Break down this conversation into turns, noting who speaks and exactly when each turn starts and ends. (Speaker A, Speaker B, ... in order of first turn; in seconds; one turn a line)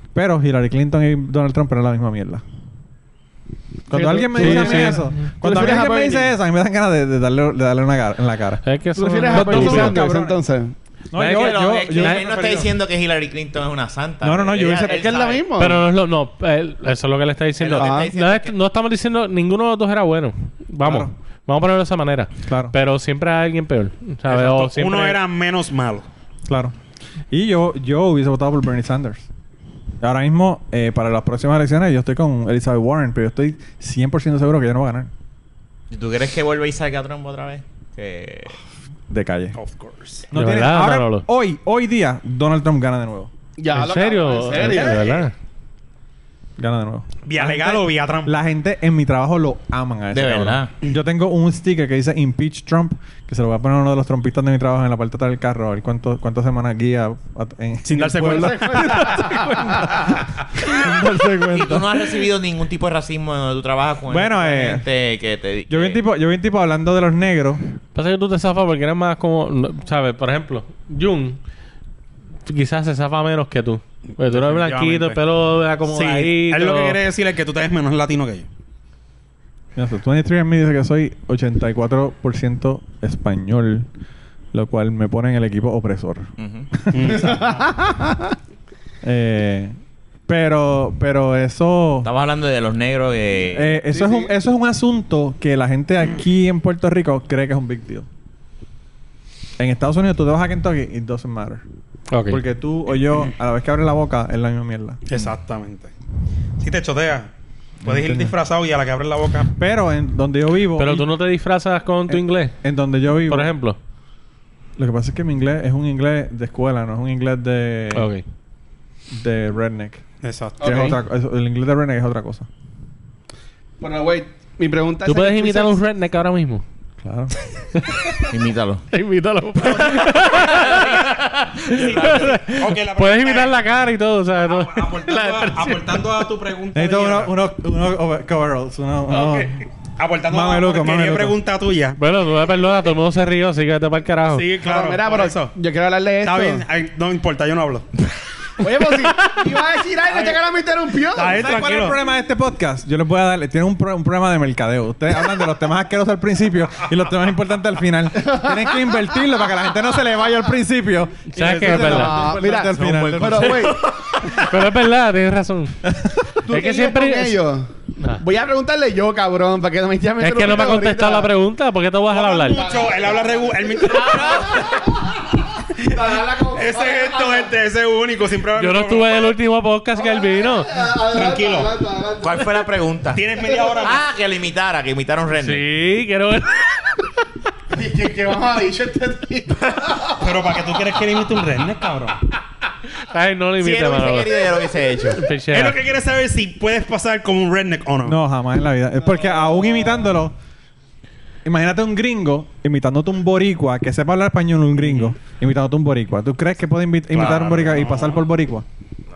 Speaker A: 0.1-2.4
Speaker A: 3.9-10.4
Speaker B: 3.9-5.3
Speaker C: 4.3-6.3
Speaker B: 8.6-10.0
Speaker C: 9.0-10.7
Speaker A: 11.1-12.7
Speaker D: 11.2-15.5
Speaker A: 14.2-15.1
Speaker C: 14.8-15.8
Speaker B: 15.6-25.2
Speaker D: 17.6-18.6
Speaker C: 17.8-18.1
Speaker A: 20.8-21.1
Speaker A: 22.5-22.7
Speaker E: 24.3-26.1
Speaker A: 26.5-26.8
Speaker A: 27.3-29.3
Speaker A: 30.0-35.1
Speaker D: 35.9-38.6
Speaker A: 39.1-39.6
Speaker E: 39.6-40.3
Speaker A: 40.3-43.3
Speaker B: 40.4-41.3
Speaker C: 43.6-45.2
Speaker B: 43.7-45.3
Speaker A: 46.6-62.3
Speaker E: 47.3-48.3
Speaker D: 50.1-50.7
Speaker E: 57.9-59.2
Speaker C: 58.3-60.0
Speaker D: 61.5-66.0
Speaker A: 64.1-64.8
Speaker A: 65.7-67.6
Speaker B: 68.0-71.4
Speaker B: 72.5-77.0
Speaker E: 74.3-75.2
Speaker E: 75.9-78.5
Speaker A: 79.8-83.9
Speaker A: 84.5-87.5
Speaker D: 86.4-86.7
Speaker E: 86.9-87.5
Speaker C: 87.1-88.3
Speaker A: 89.0-89.8
Speaker A: 90.3-92.1
Speaker D: 92.0-93.8
Speaker A: 93.5-98.1
Speaker C: 93.9-94.3
Speaker A: 99.6-101.6
Speaker B: 102.1-102.4
Speaker A: 102.3-105.0
Speaker E: 105.1-105.9
Speaker E: 106.6-107.3
Speaker A: 107.8-108.3
Speaker E: 107.8-109.5
Speaker A: 109.6-111.1
Speaker B: 110.8-112.6
Speaker A: 112.1-113.5
Speaker B: 113.3-113.8
Speaker A: 114.8-118.1
Speaker B: 117.9-118.2
Speaker A: 119.1-120.0
Speaker E: 120.2-121.0
Speaker C: 120.6-121.0
Speaker A: 120.6-122.5
Speaker C: 123.8-125.8
Speaker B: 125.1-126.6
Speaker A: 127.0-127.3
Speaker B: 127.8-128.2
Speaker D: 128.3-128.8
Speaker B: 128.9-136.1
Speaker D: 130.2-131.2
Speaker E: 130.7-131.0
Speaker E: 131.7-133.6
Speaker D: 131.7-132.2
Speaker E: 134.4-137.4
Speaker A: 136.7-139.6
Speaker E: 139.1-142.0
Speaker A: 140.3-141.4
Speaker B: 142.0-144.5
Speaker E: 144.3-145.5
Speaker C: 144.6-146.6
Speaker E: 146.2-147.9
Speaker C: 148.6-151.5
Speaker E: 150.1-150.4
Speaker E: 151.1-152.0
Speaker A: 151.3-163.8
Speaker C: 158.2-159.0
Speaker B: 161.3-162.2
Speaker C: 161.5-163.9
Speaker B: 164.2-165.8
Speaker A: 165.8-166.2
Speaker C: 166.4-171.3
Speaker B: 166.5-167.4
Speaker B: 170.2-172.6
Speaker E: 172.1-174.6
Speaker C: 172.5-174.8
Speaker D: 173.8-175.0
Speaker C: 175.8-177.5
Speaker E: 176.5-179.3
Speaker B: 178.6-180.7
Speaker C: 180.0-182.7
Speaker E: 181.1-181.7
Speaker D: 182.2-183.3
Speaker E: 183.1-184.0
Speaker D: 183.8-185.7
Speaker B: 185.4-186.9
Speaker C: 187.7-190.1
Speaker E: 190.2-192.2
Speaker B: 193.0-194.4
Speaker D: 193.6-195.2
Speaker B: 195.1-195.8
Speaker E: 195.5-198.2
Speaker A: 198.0-200.3
Speaker A: 201.4-208.7
Speaker E: 207.1-208.2